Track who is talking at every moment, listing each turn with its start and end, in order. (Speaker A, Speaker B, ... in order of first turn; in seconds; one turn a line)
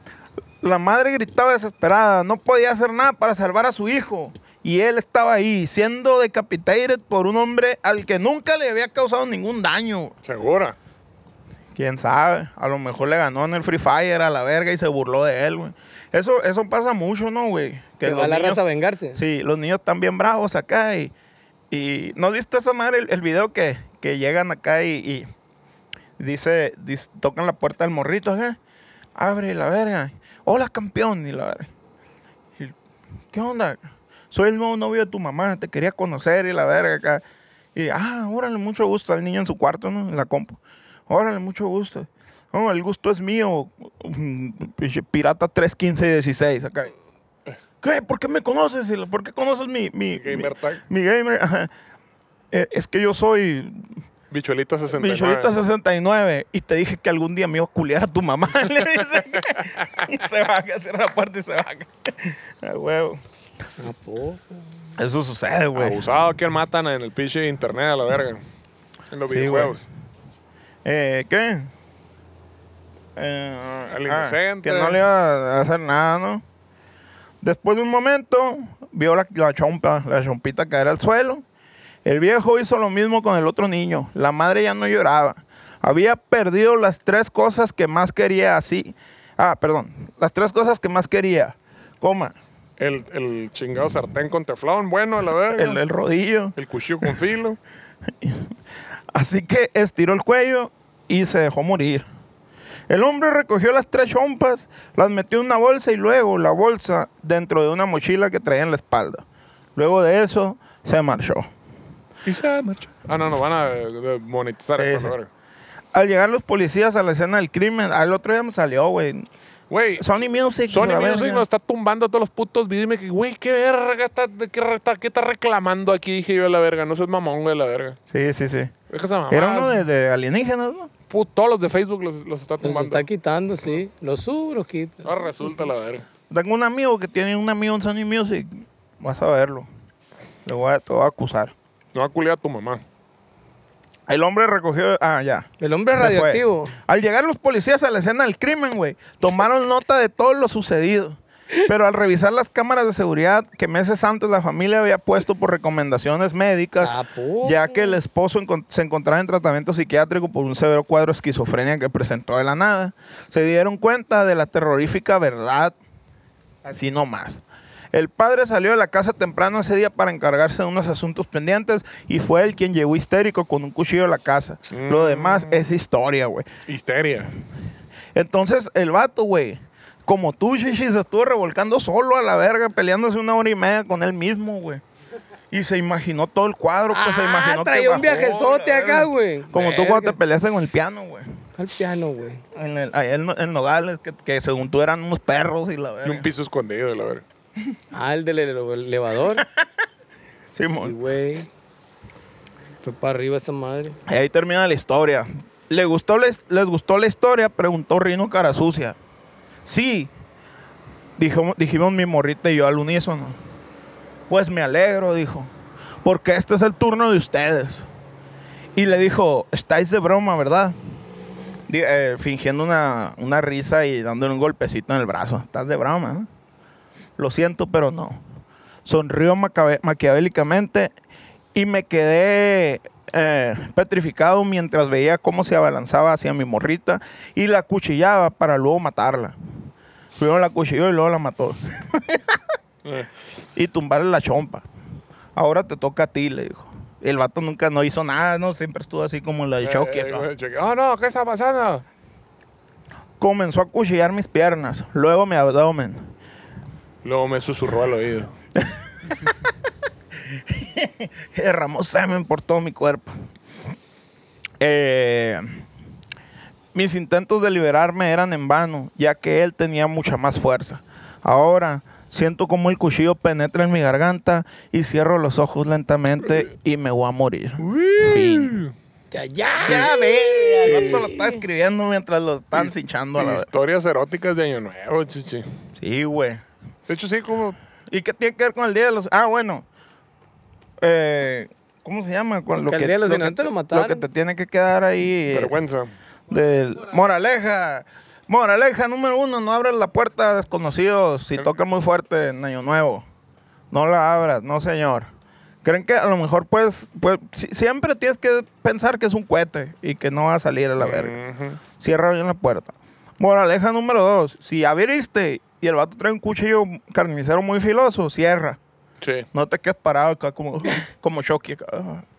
Speaker A: 0.6-10.1
Speaker B: 10.2-10.8
Speaker A: 11.8-18.6
Speaker C: 18.0-19.2
Speaker A: 19.1-21.1
Speaker A: 21.7-25.3
Speaker A: 26.2-28.6
Speaker A: 29.2-31.7
Speaker A: 33.3-37.2
Speaker A: 37.8-46.9
Speaker A: 47.8-51.7
Speaker B: 50.2-50.8
Speaker A: 52.5-54.0
Speaker B: 54.3-55.6
Speaker A: 54.9-63.2
Speaker C: 63.8-64.6
Speaker A: 65.0-66.0
Speaker B: 65.8-68.4
Speaker B: 69.1-69.8
Speaker A: 69.3-69.8
Speaker A: 70.8-71.7
Speaker A: 73.2-76.4
Speaker B: 73.9-75.0
Speaker A: 77.4-81.4
Speaker A: 82.0-92.4
Speaker B: 92.8-95.8
Speaker A: 95.5-97.1
Speaker B: 96.6-97.6
Speaker A: 98.2-98.5
Speaker A: 99.1-102.1
Speaker A: 102.9-109.2
Speaker A: 109.8-111.5
Speaker B: 112.2-115.3
Speaker A: 114.8-115.2
Speaker A: 115.9-119.3
Speaker B: 119.7-120.0
Speaker A: 119.8-121.5
Speaker B: 120.7-128.0
Speaker A: 128.1-128.7
Speaker B: 128.9-129.8
Speaker A: 129.3-130.9
Speaker B: 131.1-133.1
Speaker C: 132.6-135.1
Speaker B: 135.1-136.1
Speaker A: 136.3-139.7
Speaker A: 140.4-141.5
Speaker B: 141.9-142.8
Speaker A: 144.1-165.8
Speaker C: 145.6-146.8
Speaker C: 156.8-158.0
Speaker A: 166.6-167.4
Speaker A: 167.9-176.5
Speaker B: 174.7-175.7
Speaker B: 176.7-177.3
Speaker A: 178.1-184.8
Speaker A: 185.5-191.3
Speaker C: 186.9-190.2
Speaker C: 191.6-192.4
Speaker A: 192.5-196.3
Speaker B: 196.0-197.2
Speaker C: 197.9-199.5
Speaker A: 200.5-200.9
Speaker C: 200.8-201.5
Speaker C: 202.8-204.0
Speaker A: 204.1-209.0
Speaker A: 209.7-210.1
Speaker A: 211.2-213.4
Speaker A: 214.3-215.5
Speaker A: 216.0-217.9
Speaker A: 218.8-220.8
Speaker A: 221.7-226.3
Speaker A: 227.2-228.2
Speaker A: 228.8-230.9
Speaker A: 231.6-239.4
Speaker A: 240.2-242.4
Speaker B: 242.8-243.1
Speaker A: 243.4-244.7
Speaker A: 245.3-250.2
Speaker B: 249.6-251.8
Speaker A: 253.2-256.1
Speaker B: 257.0-258.3
Speaker A: 258.6-259.5
Speaker A: 260.2-263.1
Speaker A: 264.6-265.6
Speaker A: 266.7-278.6
Speaker B: 277.6-278.7
Speaker C: 279.1-281.4
Speaker A: 279.6-283.5
Speaker B: 280.7-281.0
Speaker B: 282.6-285.5
Speaker A: 285.8-286.4
Speaker B: 286.9-287.6
Speaker A: 287.9-289.7
Speaker A: 290.8-295.6
Speaker C: 292.6-294.0
Speaker B: 295.3-295.9
Speaker A: 296.3-303.1
Speaker A: 303.7-305.1
Speaker A: 305.6-311.2
Speaker B: 310.8-311.6
Speaker A: 311.8-318.6
Speaker B: 319.0-319.3
Speaker A: 319.3-322.1